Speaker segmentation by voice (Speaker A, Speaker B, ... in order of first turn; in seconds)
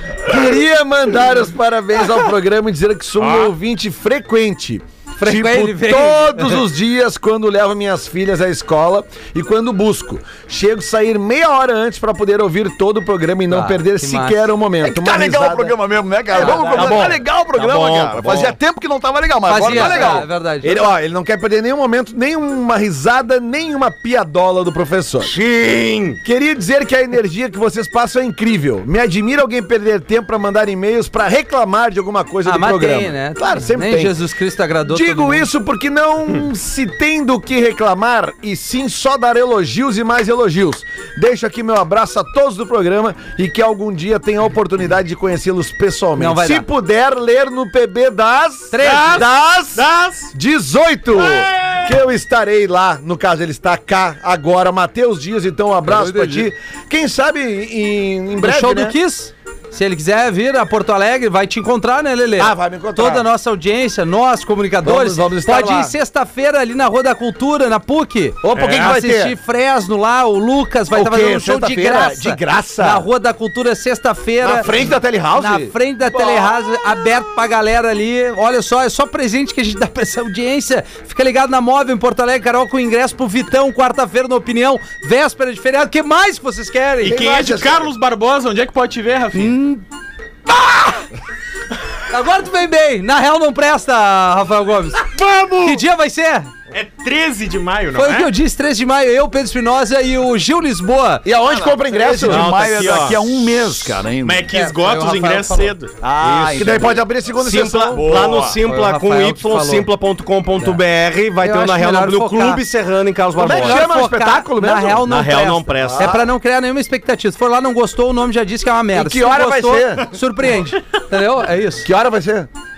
Speaker A: 0.2-15.8, 19.7-25.4, 26.2-34.2, 34.9-59.0, 62.4-63.3, 64.8-66.0, 68.4-69.3, 70.9-73.1, 74.4-76.5, 87.0-87.8, 101.2-103.0, 106.5-108.3, 113.4-115.1, 115.8-116.3, 118.9-120.1, 121.8-122.5
Speaker B: 3.2-3.5, 48.8-50.3, 51.1-51.9, 68.6-69.0, 87.0-89.5, 95.1-95.9, 96.7-98.3, 104.2-105.9
Speaker C: 5.2-6.7, 13.5-14.5, 16.3-17.1, 19.5-20.8, 32.5-35.5, 46.2-46.6, 48.7-49.3, 55.9-56.5, 58.4-74.7, 75.4-87.2, 89.3-89.8, 90.5-91.0, 92.1-95.0, 95.6-96.5, 98.0-101.3, 104.5-105.7, 108.6-109.9, 111.4-112.6, 113.4-121.9
Speaker D: 14.8-20.3, 101.4-104.5, 106.0-107.0, 107.9-108.6
Speaker E: 16.4-18.6, 25.2-26.2, 102.1-103.3, 106.2-113.9, 115.0-116.2